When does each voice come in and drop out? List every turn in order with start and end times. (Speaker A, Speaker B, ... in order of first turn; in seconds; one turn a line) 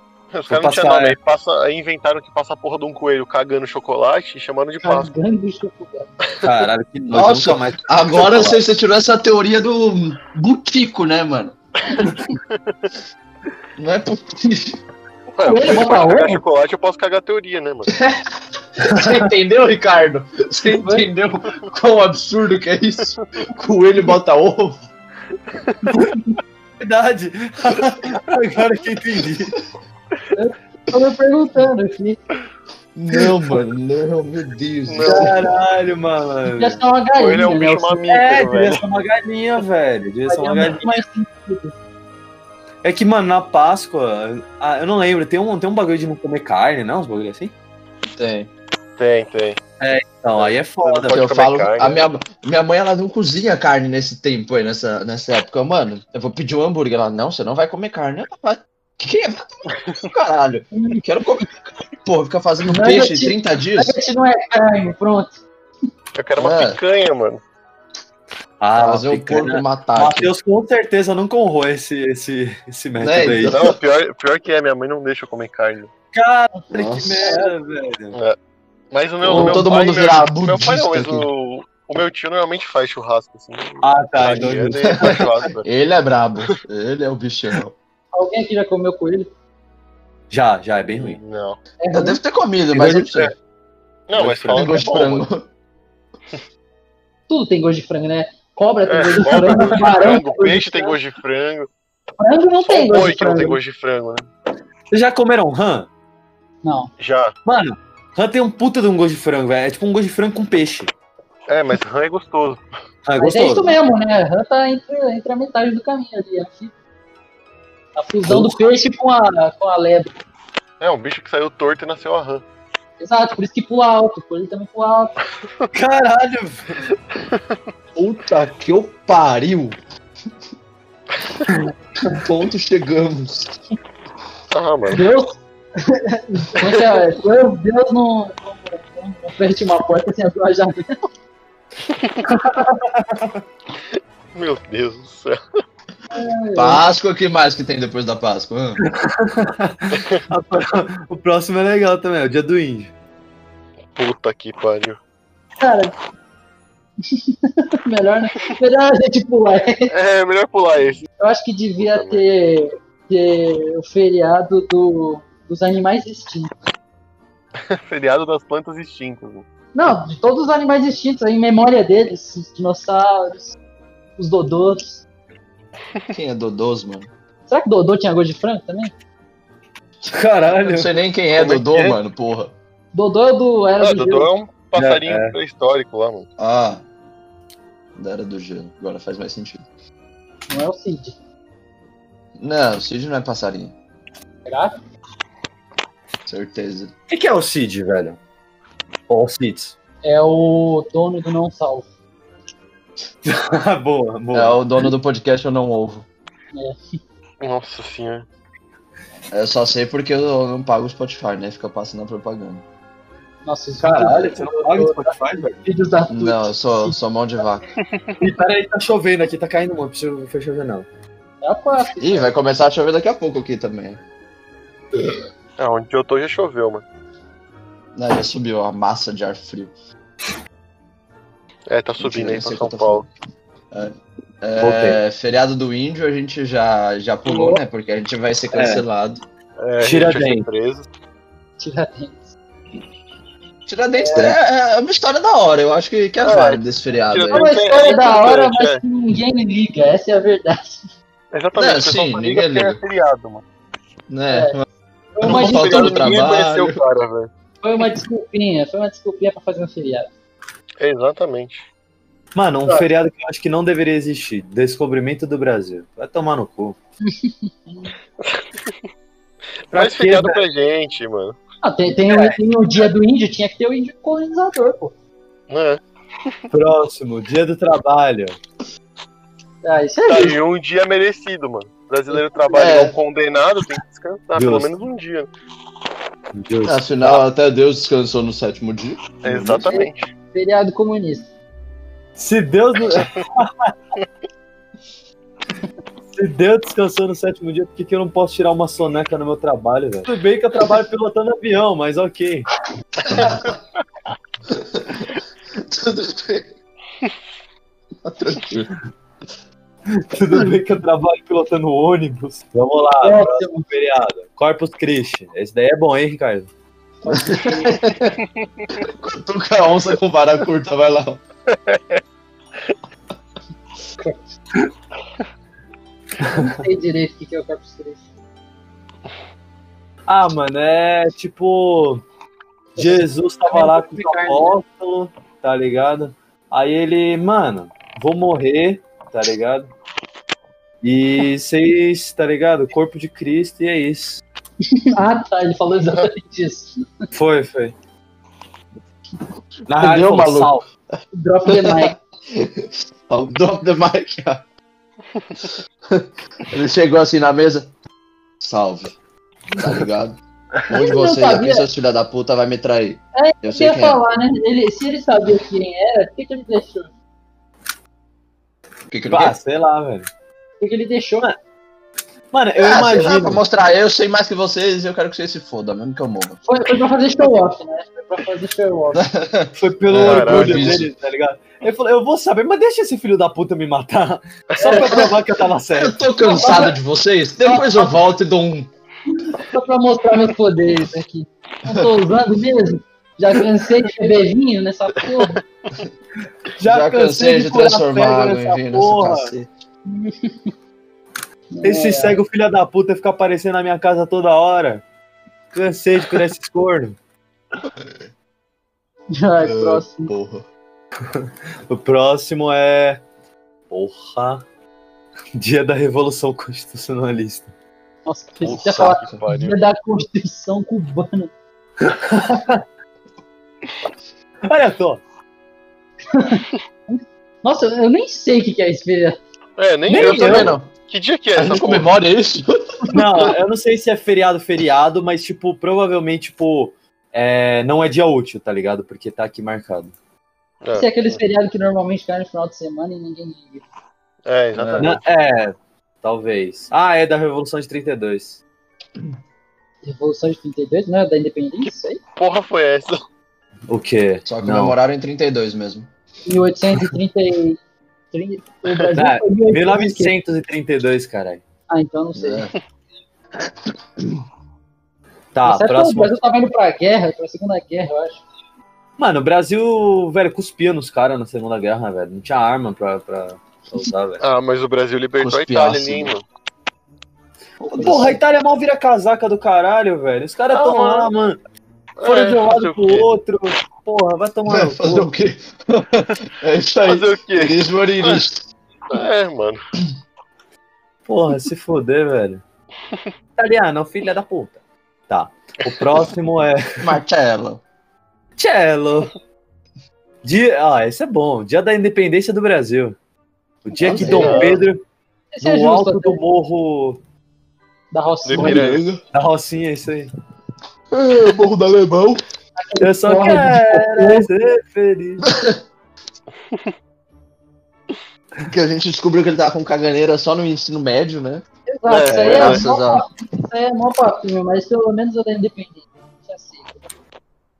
Speaker A: 0.3-5.1
Speaker B: 0.5-1.1
Speaker C: 4.8-6.1
Speaker B: 6.4-8.6
Speaker D: 7.1-11.6
Speaker A: 12.5-12.8
Speaker D: 13.8-14.8
Speaker A: 15.3-17.9
Speaker C: 15.4-16.4
Speaker D: 17.9-24.8
Speaker B: 18.9-19.2
Speaker C: 20.7-21.1
Speaker C: 25.9-26.4
Speaker B: 26.8-29.6
Speaker C: 30.3-32.2
Speaker D: 32.9-35.4
Speaker A: 34.9-35.3
Speaker B: 35.0-36.8
Speaker C: 36.5-38.0
Speaker A: 37.1-38.8
Speaker B: 38.1-41.0
Speaker C: 40.3-41.7
Speaker B: 42.8-47.5
Speaker D: 48.0-48.5
Speaker A: 49.0-49.6
Speaker B: 49.8-51.2
Speaker A: 50.3-52.0
Speaker D: 51.1-64.0
Speaker C: 60.7-61.0
Speaker C: 62.7-65.4
Speaker A: 66.2-67.4
Speaker D: 66.3-66.8
Speaker B: 68.6-73.5
Speaker D: 68.7-70.3
Speaker D: 73.0-73.8
Speaker A: 73.5-75.9
Speaker B: 76.1-78.2
Speaker D: 76.7-77.3
Speaker C: 77.2-77.5
Speaker A: 78.9-85.6
Speaker D: 79.2-81.3
Speaker B: 79.3-79.6
Speaker B: 83.8-85.3
Speaker D: 84.9-87.8
Speaker C: 88.1-89.3
Speaker B: 90.3-91.2
Speaker A: 90.9-91.6
Speaker C: 91.8-92.2
Speaker D: 91.9-93.3
Speaker B: 92.7-93.3
Speaker A: 94.1-95.2
Speaker B: 94.2-94.7
Speaker D: 94.4-95.4
Speaker C: 97.3-101.0
Speaker A: 98.9-101.7
Speaker B: 99.3-99.7
Speaker C: 102.2-103.6
Speaker A: 102.6-104.3
Speaker B: 104.9-105.9
Speaker C: 106.6-106.9
Speaker A: 107.0-107.3
Speaker B: 107.4-110.9
Speaker A: 111.5-112.6
Speaker B: 113.0-113.8
Speaker C: 113.2-116.7
Speaker C: 118.0-120.1
Speaker B: 118.2-118.7
Speaker A: 120.8-122.4
Speaker C: 123.0-125.1
Speaker B: 125.7-126.8
Speaker A: 127.2-127.6
Speaker D: 128.0-129.8
Speaker D: 132.1-133.6
Speaker A: 134.5-135.0
Speaker C: 134.9-141.1
Speaker A: 141.9-142.2
Speaker B: 142.3-143.4
Speaker A: 144.3-145.4
Speaker C: 146.1-146.8
Speaker D: 146.5-148.8
Speaker B: 149.0-152.9
Speaker A: 154.0-155.0
Speaker C: 155.6-155.9
Speaker C: 157.1-159.9
Speaker A: 159.9-161.1
Speaker C: 161.2-166.5
Speaker A: 161.8-162.2
Speaker A: 167.7-169.4
Speaker C: 169.7-173.6
Speaker C: 174.2-175.0
Speaker D: 176.1-177.1
Speaker C: 177.5-178.9
Speaker B: 180.0-182.0
Speaker D: 180.6-182.5
Speaker C: 182.9-184.3
Speaker A: 183.8-186.3
Speaker B: 184.7-185.3
Speaker D: 186.4-186.8
Speaker D: 187.9-189.6
Speaker C: 190.5-191.1
Speaker D: 192.4-193.7
Speaker C: 194.4-194.7
Speaker D: 196.2-196.9
Speaker B: 197.1-198.2
Speaker B: 199.1-199.7
Speaker C: 200.0-201.9
Speaker B: 203.2-204.9
Speaker D: 204.3-206.1
Speaker C: 206.5-207.0
Speaker A: 207.4-208.2
Speaker D: 209.3-212.6
Speaker C: 213.4-217.0
Speaker B: 213.8-215.6
Speaker D: 216.1-217.6
Speaker A: 217.8-218.2
Speaker B: 218.2-220.9
Speaker C: 221.4-222.3
Speaker D: 222.0-224.0
Speaker A: 225.6-226.8
Speaker D: 227.9-229.7
Speaker A: 231.7-233.1
Speaker D: 232.0-233.1
Speaker D: 233.7-239.2
Speaker B: 234.6-235.0
Speaker C: 237.2-237.6
Speaker B: 238.5-238.8
Speaker A: 239.6-240.8
Speaker B: 239.8-240.5
Speaker C: 241.6-242.3
Speaker D: 243.7-247.5
Speaker C: 244.0-244.3
Speaker A: 246.2-248.8
Speaker C: 247.3-250.9
Speaker A: 251.3-253.4
Speaker D: 251.5-252.8
Speaker D: 254.1-254.6
Speaker C: 254.3-254.6
Speaker C: 255.1-256.1
Speaker D: 255.2-256.8
Speaker A: 255.2-257.3
Speaker C: 257.6-260.1
Speaker A: 260.8-261.6
Speaker B: 262.3-266.8
Speaker C: 267.0-267.9
Speaker A: 269.7-271.4
Speaker B: 269.7-270.4
Speaker C: 271.6-274.9
Speaker B: 272.1-272.4
Speaker A: 275.5-276.4
Speaker B: 276.5-278.4
Speaker C: 279.6-280.4
Speaker A: 280.1-285.3
Speaker D: 282.5-282.9
Speaker B: 284.3-284.7
Speaker B: 286.3-287.2
Speaker D: 286.6-289.7
Speaker A: 289.2-290.1
Speaker C: 289.7-291.3
Speaker B: 292.2-293.7
Speaker B: 296.1-302.5
Speaker A: 303.1-303.6
Speaker D: 303.1-303.4
Speaker D: 304.5-306.5
Speaker D: 308.0-308.7
Speaker B: 309.9-316.5
Speaker C: 313.0-313.7
Speaker C: 317.0-317.8
Speaker D: 317.1-318.2
Speaker D: 318.7-321.2
Speaker A: 321.5-322.0
Speaker C: 324.0-324.3
Speaker B: 326.2-326.6
Speaker C: 326.2-328.0
Speaker B: 330.1-332.0
Speaker B: 332.8-339.7
Speaker C: 332.8-334.6
Speaker B: 340.8-344.2
Speaker C: 344.7-347.1
Speaker B: 347.1-347.7
Speaker B: 349.7-350.6
Speaker D: 349.8-350.6
Speaker C: 351.1-351.9
Speaker D: 351.4-354.4
Speaker D: 355.9-357.7
Speaker D: 358.4-358.9
Speaker D: 359.6-364.0
Speaker C: 360.7-361.6
Speaker C: 363.1-366.9
Speaker D: 368.9-369.4
Speaker B: 369.1-370.1
Speaker C: 370.6-371.3
Speaker B: 372.3-373.4
Speaker D: 372.6-376.4
Speaker C: 376.4-379.1
Speaker D: 378.9-380.9
Speaker B: 379.6-386.0
Speaker A: 380.0-380.8
Speaker A: 384.5-385.0
Speaker C: 384.6-385.0
Speaker D: 385.7-388.7
Speaker C: 386.2-386.8
Speaker C: 387.4-387.9
Speaker C: 389.2-395.4
Speaker B: 396.6-399.3
Speaker D: 396.6-399.5
Speaker C: 399.9-400.5
Speaker C: 401.5-402.2
Speaker B: 401.6-404.8
Speaker B: 405.5-407.0
Speaker C: 409.1-410.1
Speaker D: 409.4-410.4
Speaker B: 411.1-413.0
Speaker B: 413.7-414.4
Speaker B: 415.4-417.5
Speaker C: 418.1-421.3
Speaker A: 418.4-419.6
Speaker D: 418.4-419.2
Speaker B: 421.8-422.6
Speaker B: 424.4-425.0
Speaker C: 426.1-429.2
Speaker A: 429.6-431.9
Speaker B: 429.9-430.6
Speaker D: 429.9-430.7
Speaker D: 431.3-433.2
Speaker B: 432.9-439.9
Speaker A: 440.6-441.1
Speaker C: 440.7-443.6
Speaker A: 444.2-445.0
Speaker D: 444.5-444.9
Speaker B: 444.8-448.4
Speaker C: 449.8-452.0
Speaker A: 452.2-453.0
Speaker B: 453.7-454.8
Speaker D: 454.2-455.9
Speaker C: 456.2-457.6
Speaker C: 458.1-460.1
Speaker B: 458.9-461.4
Speaker C: 461.7-462.5
Speaker D: 462.1-462.5
Speaker B: 465.3-466.2
Speaker C: 465.4-468.2
Speaker B: 469.0-474.2
Speaker A: 474.2-476.2
Speaker D: 475.2-476.1
Speaker D: 477.6-478.2
Speaker C: 477.7-478.1
Speaker B: 477.8-481.4
Speaker A: 480.5-481.1
Speaker A: 482.0-483.1
Speaker B: 482.0-485.1
Speaker D: 484.5-488.4
Speaker A: 486.8-488.2
Speaker A: 488.9-489.6
Speaker B: 491.1-492.4
Speaker B: 493.4-494.6
Speaker B: 495.1-496.9
Speaker D: 496.8-497.6
Speaker B: 498.4-499.1
Speaker B: 500.2-503.0
Speaker B: 503.6-504.8
Speaker D: 503.8-504.6
Speaker A: 504.0-504.6
Speaker C: 505.3-506.2
Speaker B: 505.4-507.0
Speaker C: 507.9-508.7
Speaker A: 508.2-508.8
Speaker D: 508.3-509.0
Speaker B: 509.1-510.1
Speaker D: 510.9-512.2
Speaker C: 512.6-514.3
Speaker B: 512.8-515.2
Speaker D: 515.2-515.6
Speaker D: 518.5-521.4
Speaker C: 521.7-526.8
Speaker A: 521.9-522.6
Speaker D: 522.0-523.0